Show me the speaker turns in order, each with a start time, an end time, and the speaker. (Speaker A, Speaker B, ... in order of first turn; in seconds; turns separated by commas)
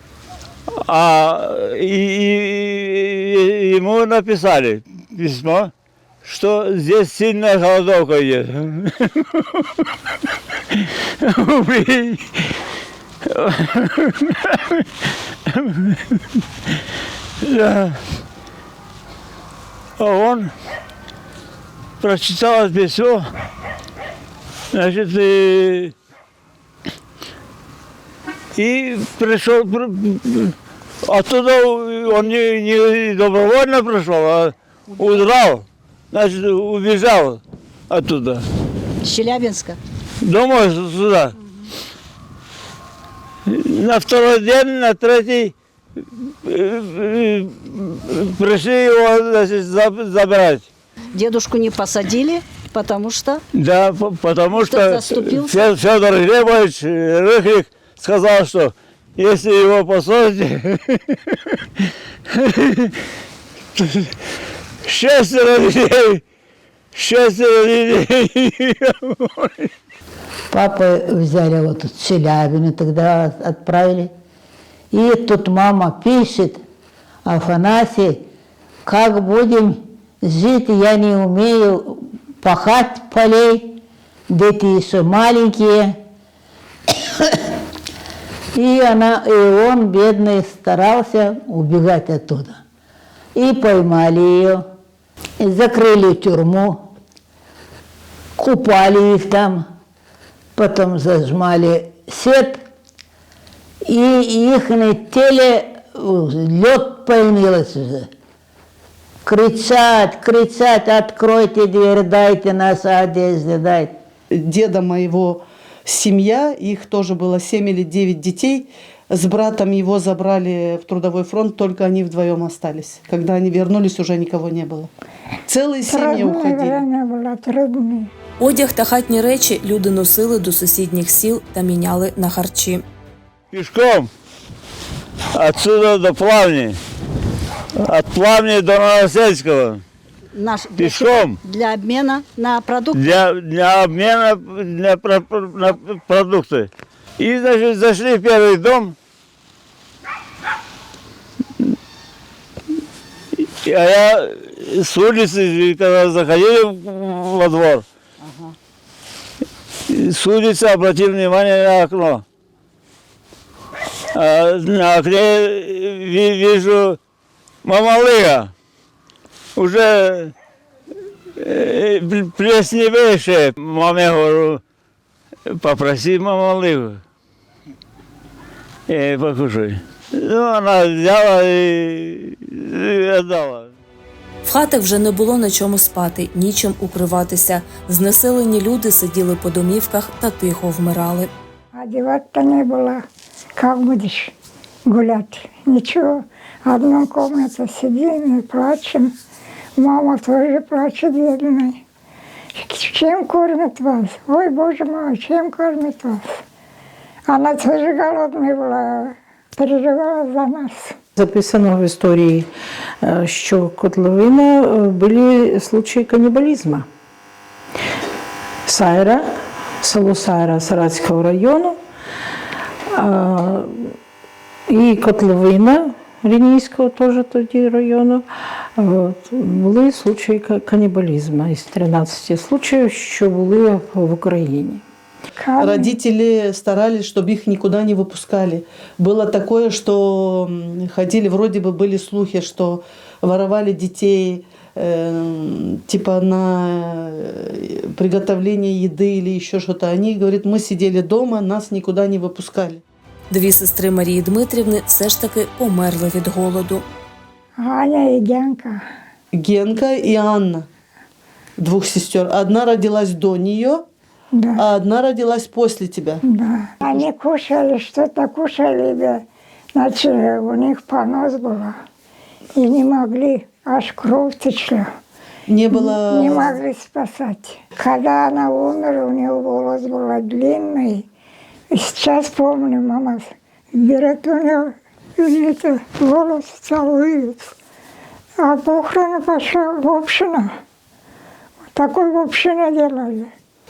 Speaker A: 0.8-5.7, Speaker A: 6.2-9.4, Speaker A: 10.7-12.4, Speaker A: 13.2-14.8, Speaker A: 15.5-16.2, Speaker A: 17.4-18.0, Speaker A: 20.0-20.5, Speaker A: 22.0-23.2, Speaker A: 24.7-25.9, Speaker A: 28.5-30.5, Speaker A: 31.1-38.4, Speaker B: 34.9-35.2, Speaker B: 39.0-39.8, Speaker A: 40.2-41.3, Speaker A: 43.5-45.5, Speaker A: 46.4-50.7, Speaker B: 51.1-53.4, Speaker A: 53.5-61.4, Speaker B: 54.5-55.6, Speaker A: 62.3-62.9, Speaker A: 63.8-64.1, Speaker A: 64.8-66.2, Speaker A: 66.9-69.7, Speaker C: 70.5-74.1, Speaker C: 74.9-76.6, Speaker C: 77.2-78.2, Speaker C: 78.8-86.0, Speaker C: 88.5-92.6, Speaker C: 93.3-94.6, Speaker C: 95.4-96.9, Speaker C: 98.4-99.6, Speaker C: 100.5-102.6, Speaker C: 103.8-108.1, Speaker C: 109.2-113.9, Speaker D: 114.3-124.9, Speaker D: 125.5-126.8, Speaker E: 125.8-128.1, Speaker F: 128.4-132.8, Speaker A: 133.5-134.1, Speaker A: 135.3-136.8, Speaker A: 137.8-139.8, Speaker B: 140.3-143.2, Speaker A: 140.8-141.4, Speaker A: 142.9-148.9, Speaker A: 153.6-157.8, Speaker B: 158.3-158.5, Speaker A: 159.9-162.2, Speaker A: 164.1-167.0, Speaker A: 167.6-168.5, Speaker A: 169.6-170.3, Speaker A: 171.4-174.6, Speaker A: 175.6-177.0, Speaker A: 178.9-183.7, Speaker F: 184.4-191.3, Speaker E: 191.7-193.0, Speaker E: 193.6-194.3, Speaker E: 194.9-199.1, Speaker E: 199.8-201.8, Speaker E: 202.6-206.4, Speaker E: 207.3-210.9, Speaker G: 211.2-212.5, Speaker G: 213.0-216.9, Speaker G: 218.7-221.8, Speaker G: 222.9-223.9, Speaker G: 224.7-234.8, Speaker E: 235.4-235.9, Speaker D: 235.6-252.8, Speaker F: 253.3-256.8, Speaker E: 257.6-258.8, Speaker D: 259.3-260.7, Speaker D: 261.6-263.9, Speaker E: 264.3-264.6, Speaker D: 264.6-266.2, Speaker E: 266.2-269.2, Speaker E: 269.7-271.7, Speaker E: 272.6-274.9, Speaker D: 275.5-276.6, Speaker E: 275.7-281.0, Speaker E: 281.7-287.5, Speaker E: 288.4-290.5, Speaker E: 291.7-293.3